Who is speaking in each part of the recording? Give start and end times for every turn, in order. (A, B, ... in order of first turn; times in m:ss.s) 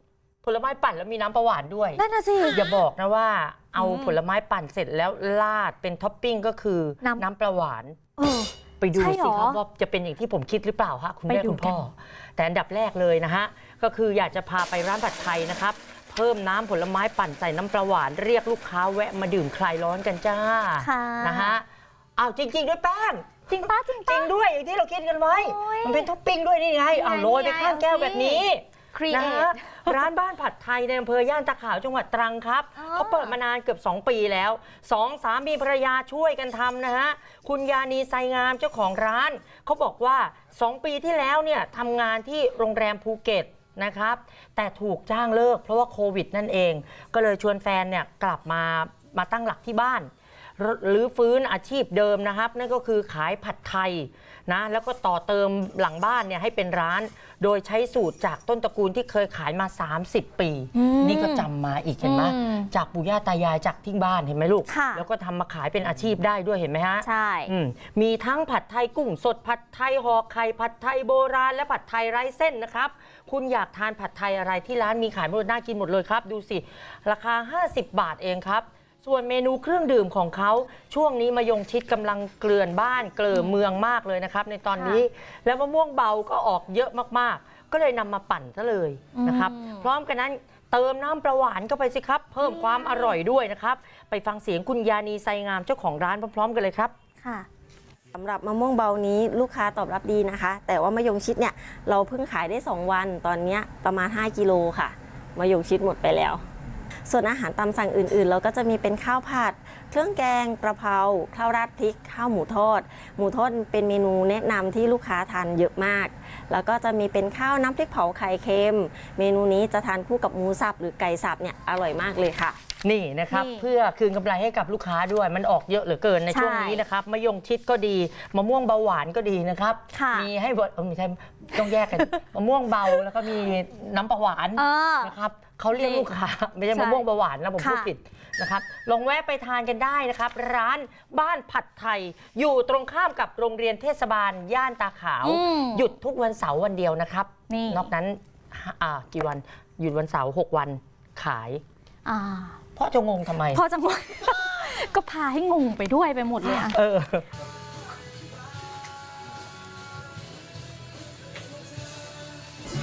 0:00.4-0:08.0 A
0:02.0-0:02.8 B
0:03.8-0:04.2 B
0:08.2-0:09.6 B
0:08.8-0:21.6 A
0:11.3-0:11.8 B
0:20.8-0:21.6 B
0:22.2-1:36.9 A
0:23.5-0:24.3 B
0:25.3-0:26.1 B
0:26.9-0:30.1 B
0:32.8-0:33.3 B
1:00.7-1:01.5 B
1:02.0-1:02.7 B
1:04.7-1:05.0 B
1:07.0-1:07.5 B
1:24.7-1:25.0 B
1:29.1-1:29.9 B
1:32.4-1:33.2 B
1:37.2-1:37.5 B
1:38.2-1:46.4 C
1:47.1-2:02.6 C
2:02.8-2:31.6 A
2:03.3-2:03.6 B
2:06.3-2:06.8 B
2:09.9-2:10.3 B
2:11.7-2:12.0 B
2:14.6-2:15.2 B
2:15.8-2:16.1 B
2:16.7-2:17.0 B
2:17.6-2:17.9 B
2:25.2-2:25.9 B
2:27.5-2:27.9 B
2:32.0-2:32.6 B
2:32.7-2:33.6 A
2:33.5-2:36.8 B
2:36.4-2:37.2 A